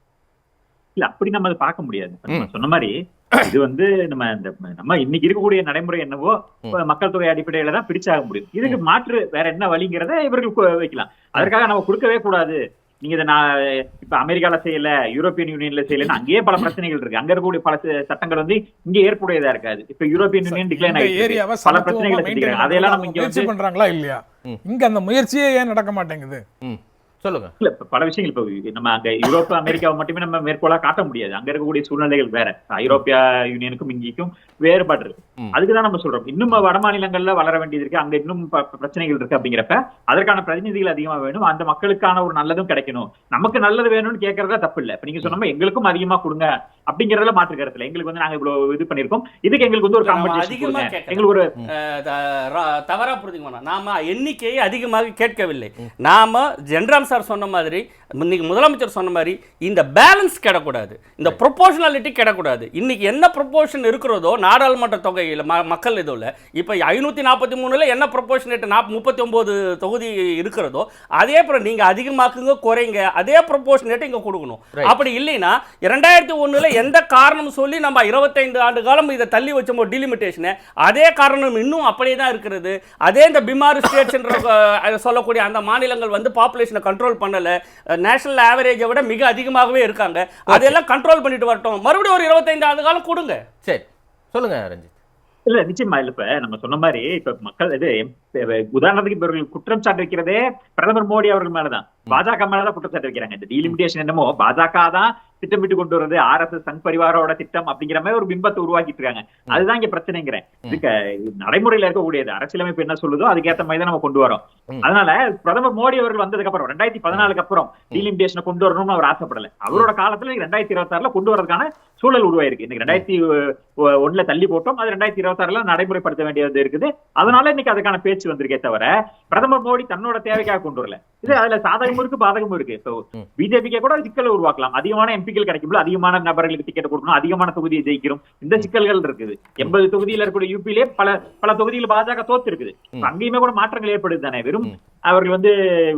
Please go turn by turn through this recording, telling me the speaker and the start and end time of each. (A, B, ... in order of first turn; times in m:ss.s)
0:01.0-0:02.9 A
0:03.4-0:23.5 A
0:20.4-0:26.4 B
0:26.6-0:27.5 C
0:27.6-0:51.5 A
0:50.0-1:33.4 D
1:30.5-1:30.8 C
1:33.6-1:34.9 C
1:35.5-2:25.5 A